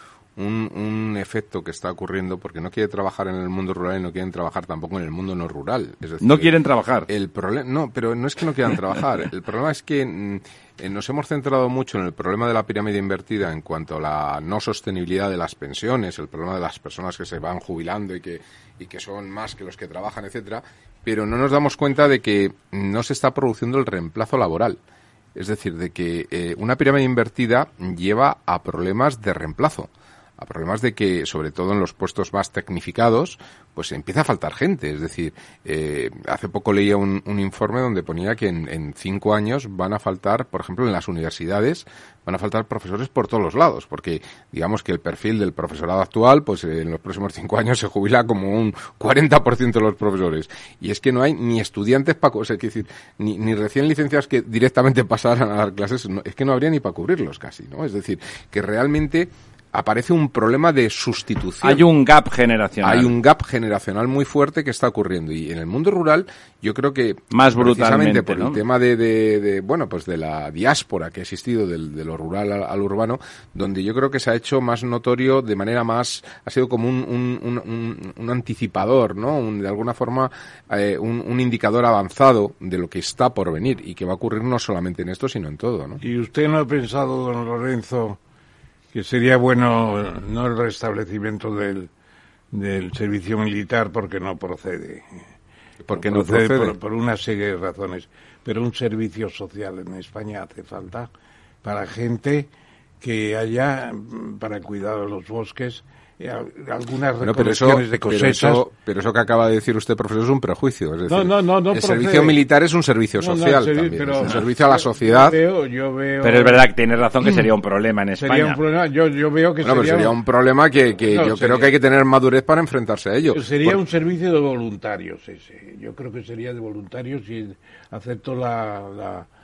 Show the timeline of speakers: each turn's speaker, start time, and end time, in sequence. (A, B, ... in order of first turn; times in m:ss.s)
0:00.4-0:06.5 A
0:06.2-0:07.1 B
0:07.1-0:24.8 A
0:25.4-1:01.9 A
1:01.6-1:03.1 B
1:02.8-1:26.0 A
1:07.3-1:08.6 B
1:26.0-1:28.2 C
1:28.9-1:31.9 C
1:32.5-1:35.2 C
1:35.8-1:36.8 A
1:35.9-1:41.1 C
1:41.6-1:42.5 C
1:43.0-1:48.6 C
1:47.2-1:55.4 A
1:51.1-1:52.4 C
1:53.2-1:56.7 C
1:56.2-1:58.6 B
1:57.2-1:57.5 C
1:58.2-2:00.2 C
1:59.6-2:03.8 A
2:01.1-2:01.7 C
2:03.3-2:09.3 C